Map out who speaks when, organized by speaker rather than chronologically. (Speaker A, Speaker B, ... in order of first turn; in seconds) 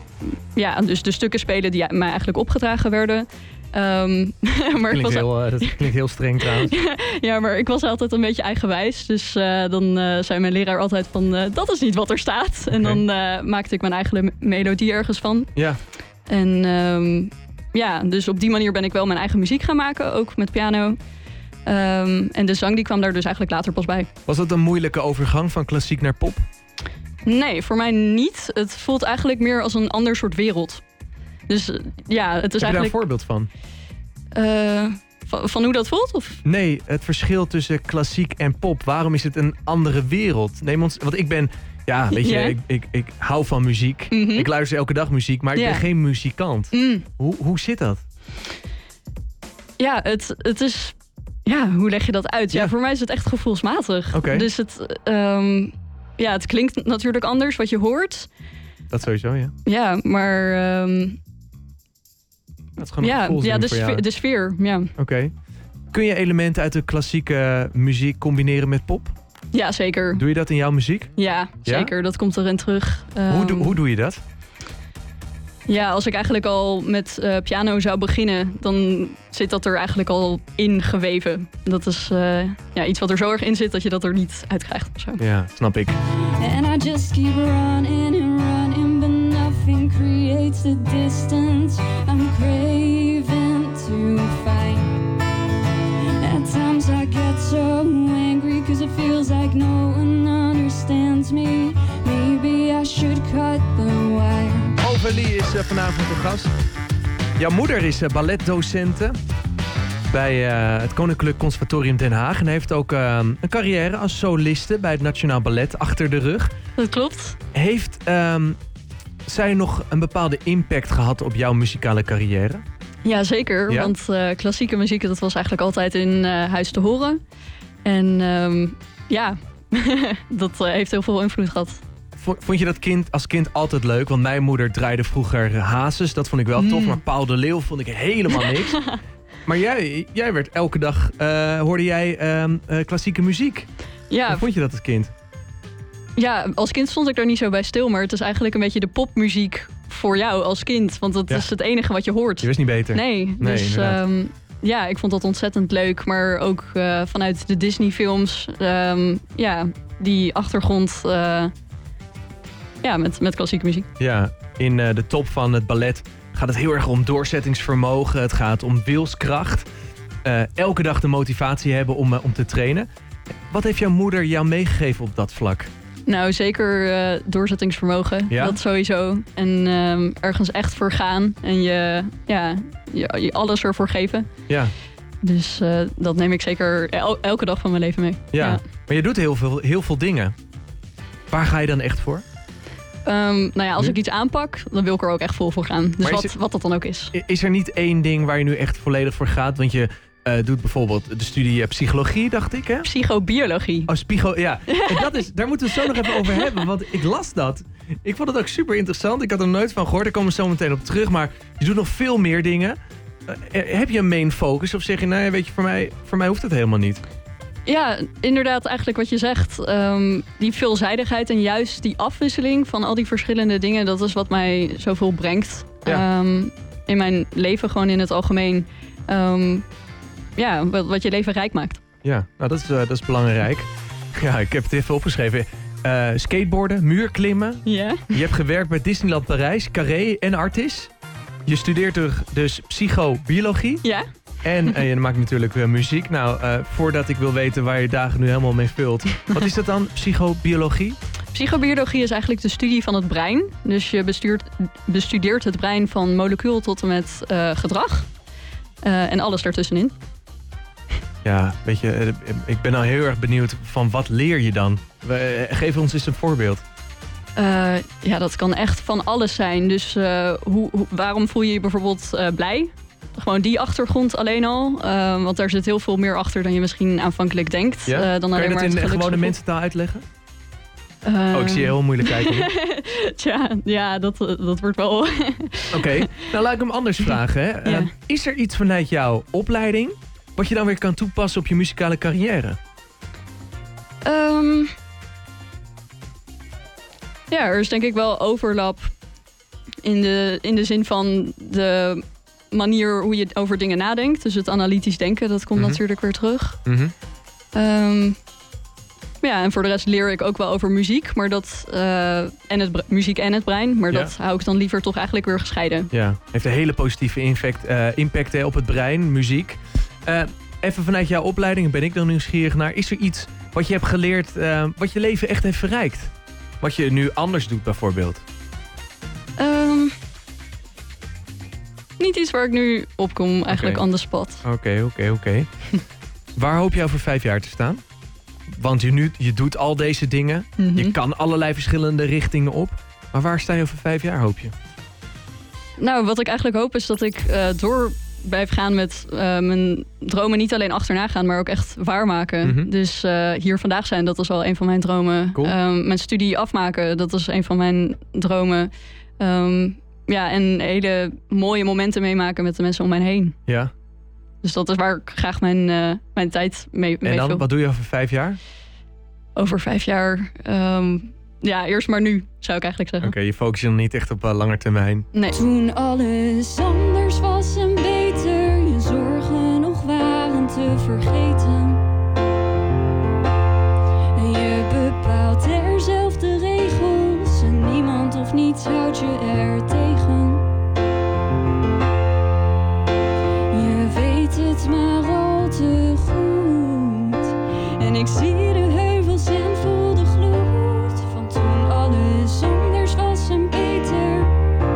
Speaker A: 0.2-15.5, 16.3-21.0, 21.6-24.1, 27.2-30.8, 31.5-33.0, 34.3-36.4, 42.1-42.6, 44.1-44.5, 45.5-45.8, 46.7-47.1, 49.8-50.9, 51.5-58.3, 59.6-61.2, 63.0-64.9, 69.5-70.2, 71.2-73.8, 75.7-85.2, 116.8-117.4, 123.0-127.2, 127.8-131.8, 136.6-137.0, 138.3-139.0, 144.1-144.4, 146.2-161.5, 162.8-163.9, 176.1-184.3, 185.2-188.6, 193.0-197.1, 202.8-203.9, 204.7-206.7, 217.7-229.7, 230.4-231.8, 237.7-238.2, 251.3-258.1, 258.8-259.9, 267.4-279.4, 281.0-286.2, 287.6-287.9, 294.0-294.7, 297.3-298.9, 299.8-306.6, 307.5-308.2, 309.2-315.9, 329.4-329.9, 332.0-334.4, 340.6-340.9, 345.8-363.4, 364.4-367.4, 369.4-373.1, 375.1-375.4, 394.4-404.3
Speaker B: 4.8-6.7, 12.7-13.0, 24.2-26.4, 32.6-33.5, 36.4-48.0, 54.1-54.5, 58.9-59.5, 62.8-64.0, 65.0-65.3, 65.9-69.1, 70.1-71.1, 71.6-71.9, 73.3-74.2, 85.2-86.0, 104.8-106.5, 107.4-109.2, 110.1-116.5, 117.5-118.6, 119.2-122.6, 132.2-138.8, 139.4-143.7, 144.2-145.1, 152.4-154.0, 164.0-169.7, 170.2-172.9, 173.5-175.7, 178.3-178.6, 188.3-190.3, 191.3-192.2, 196.0-196.3, 197.1-202.9, 203.9-217.0, 232.0-240.9, 241.4-243.8, 244.4-251.0, 261.2-266.6, 277.9-280.0, 281.3-282.5, 285.7-292.6, 305.6-305.8, 306.6-306.9, 315.9-328.2, 333.5-333.8, 334.4-335.5, 336.4-337.8, 338.5-344.5, 352.4-352.7, 367.0-368.4, 373.0-375.1
Speaker C: 86.4-95.1, 96.2-104.8, 375.3-381.8, 384.1-390.4, 393.5-395.7